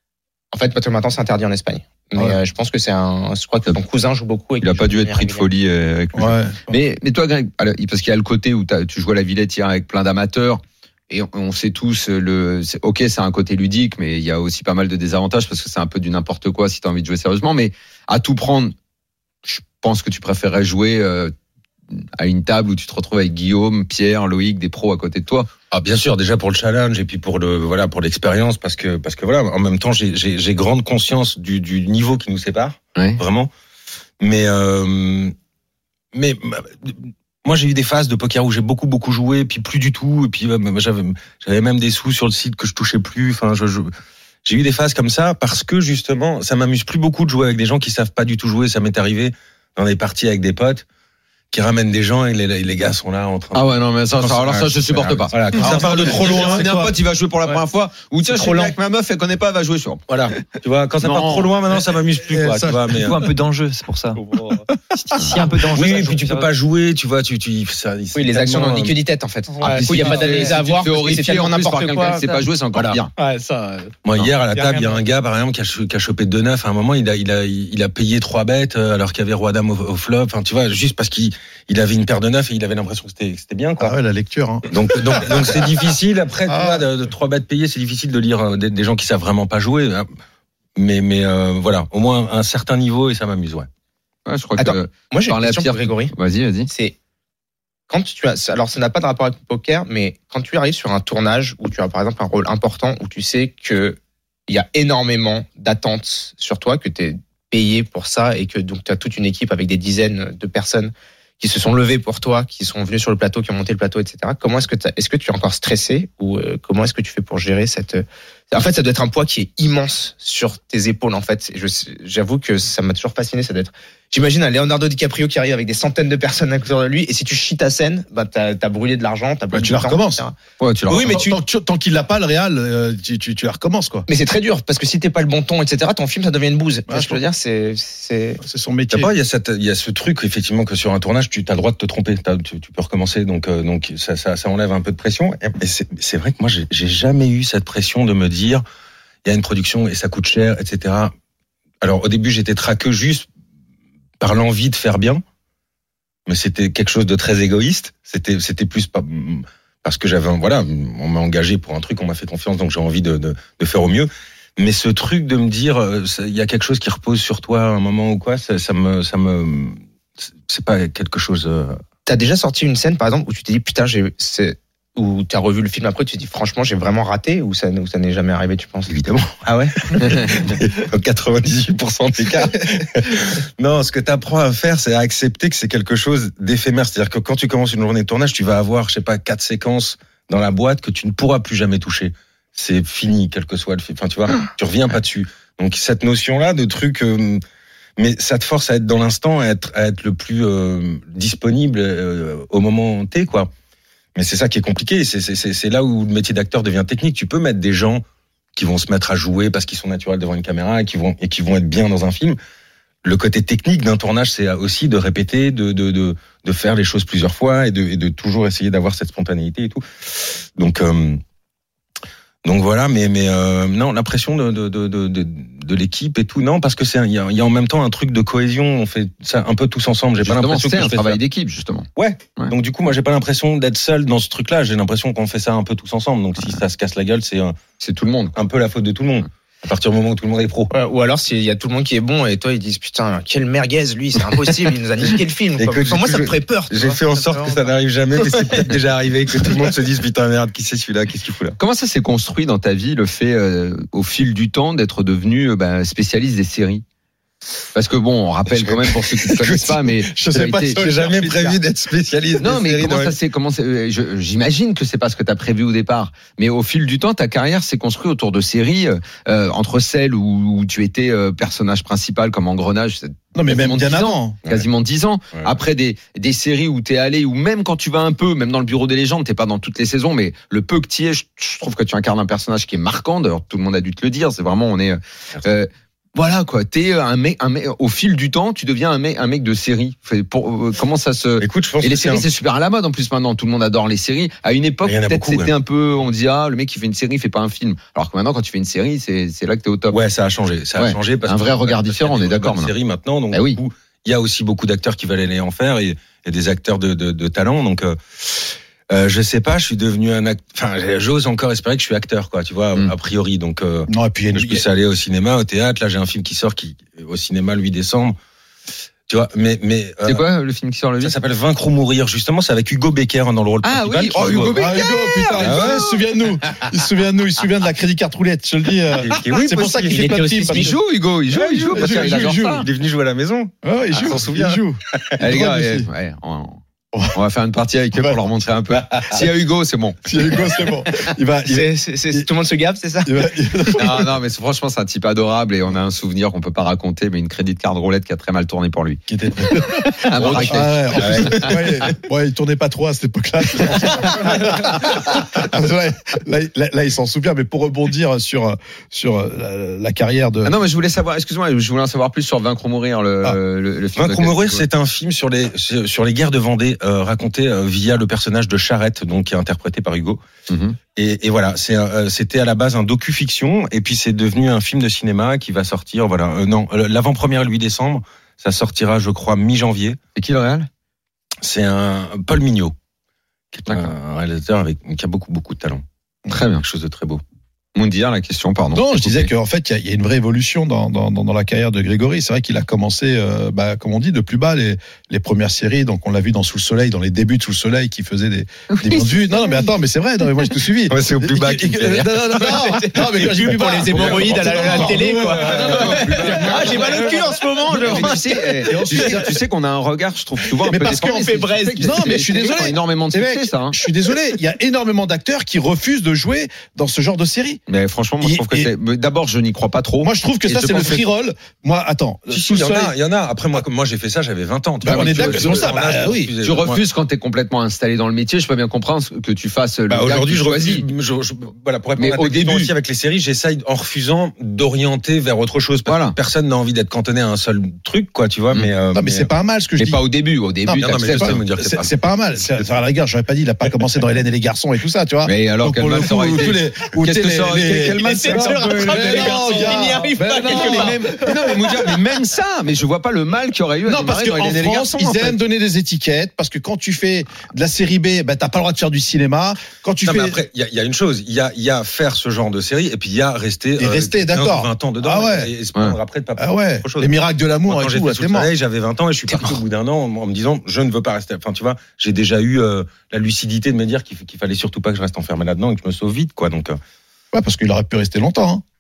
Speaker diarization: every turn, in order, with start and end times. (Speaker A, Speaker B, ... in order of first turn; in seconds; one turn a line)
Speaker A: 0.5-5.5
Speaker B: 4.6-18.7
Speaker C: 6.1-6.8
Speaker B: 19.4-21.3
Speaker B: 21.9-25.5
Speaker D: 25.7-33.5
Speaker B: 33.0-33.2
Speaker D: 34.2-35.3
Speaker D: 36.1-43.9
Speaker D: 44.4-50.8
Speaker D: 51.5-56.7
Speaker B: 53.5-60.0
Speaker C: 55.6-57.0
Speaker D: 60.1-63.2
Speaker B: 61.0-61.5
Speaker C: 62.3-62.9
Speaker E: 62.9-64.2
Speaker F: 64.1-64.7
Speaker E: 65.0-66.5
Speaker B: 65.2-65.4
Speaker D: 65.6-68.9
Speaker A: 68.1-73.0
Speaker F: 69.5-70.8
Speaker B: 69.6-73.1
Speaker F: 73.2-74.0
Speaker D: 74.0-84.0
Speaker F: 74.5-75.0
Speaker C: 83.8-85.7
Speaker D: 84.7-90.1
Speaker C: 86.5-86.9
Speaker D: 90.8-93.7
Speaker B: 94.2-96.7
Speaker A: 94.6-96.1
Speaker A: 96.7-97.0
Speaker A: 97.9-130.3
Speaker C: 129.5-130.2
Speaker B: 130.6-131.2
Speaker A: 130.9-131.4
Speaker C: 131.0-134.1
Speaker A: 134.1-138.4
Speaker C: 136.9-137.2
Speaker C: 138.4-139.1
Speaker D: 138.9-148.6
Speaker D: 149.2-151.1
Speaker D: 151.8-153.2
Speaker D: 154.2-155.2
Speaker D: 156.3-169.8
Speaker D: 170.4-171.8
Speaker A: 172.1-179.7
Speaker D: 178.9-197.4
Speaker D: 198.0-203.5
Speaker D: 204.2-208.0
Speaker D: 208.6-212.4
Speaker D: 213.0-221.2
Speaker D: 222.4-231.2
Speaker B: 230.2-232.5
Speaker D: 232.0-237.6
Speaker B: 237.8-238.3
Speaker D: 238.3-240.7
Speaker A: 240.7-248.6
Speaker D: 245.6-251.6
Speaker B: 251.6-256.8
Speaker B: 257.7-260.9
Speaker D: 258.5-260.0
Speaker C: 260.1-261.6
Speaker D: 260.7-263.1
Speaker B: 262.4-300.0
Speaker C: 273.3-274.4
Speaker D: 291.4-292.3
Speaker D: 294.8-295.5
Speaker D: 299.9-318.1
Speaker B: 300.8-302.7
Speaker B: 303.3-303.6
Speaker C: 313.9-314.6
Speaker D: 319.1-320.2
Speaker B: 320.1-321.1
Speaker D: 321.0-324.7
Speaker B: 323.6-325.9
Speaker C: 324.4-330.8
Speaker D: 325.4-325.9
Speaker D: 328.9-330.1
Speaker A: 329.9-330.8
Speaker B: 330.5-332.6
Speaker C: 331.3-332.6
Speaker D: 331.3-335.2
Speaker C: 333.6-335.9
Speaker B: 335.2-336.6
Speaker B: 337.1-340.0
Speaker C: 340.1-342.3
Speaker A: 341.5-343.3
Speaker C: 343.0-344.1
Speaker B: 343.7-351.8
Speaker D: 349.1-351.7
Speaker C: 349.8-360.5
Speaker B: 360.4-364.6
Speaker D: 363.9-370.2
Speaker B: 370.5-370.8
Speaker D: 370.9-380.0
Speaker B: 380.1-380.7
Speaker D: 381.4-382.7
Speaker D: 383.5-385.8
Speaker B: 383.7-383.9
Speaker B: 386.3-386.6
Speaker D: 386.6-387.2
Speaker B: 387.7-389.3
Speaker C: 388.7-406.9
Speaker B: 398.8-399.1
Speaker D: 400.9-402.1
Speaker B: 401.2-402.0
Speaker A: 402.3-409.2
Speaker B: 404.1-413.8
Speaker C: 407.7-409.3
Speaker C: 410.6-417.6
Speaker A: 410.7-412.2
Speaker B: 417.7-421.0
Speaker C: 418.2-418.7
Speaker C: 420.0-422.9
Speaker D: 422.3-426.8
Speaker C: 424.8-426.3
Speaker B: 424.8-430.9
Speaker D: 429.9-439.3
Speaker B: 432.0-432.7
Speaker B: 435.9-436.1
Speaker C: 438.9-440.0
Speaker B: 439.8-441.4
Speaker C: 440.6-451.2
Speaker D: 440.8-441.9
Speaker B: 445.2-455.4
Speaker A: 448.0-451.2
Speaker C: 453.8-460.4
Speaker D: 460.0-467.1
Speaker C: 463.8-465.5
Speaker C: 466.4-468.5
Speaker D: 467.7-476.8
Speaker C: 477.3-478.6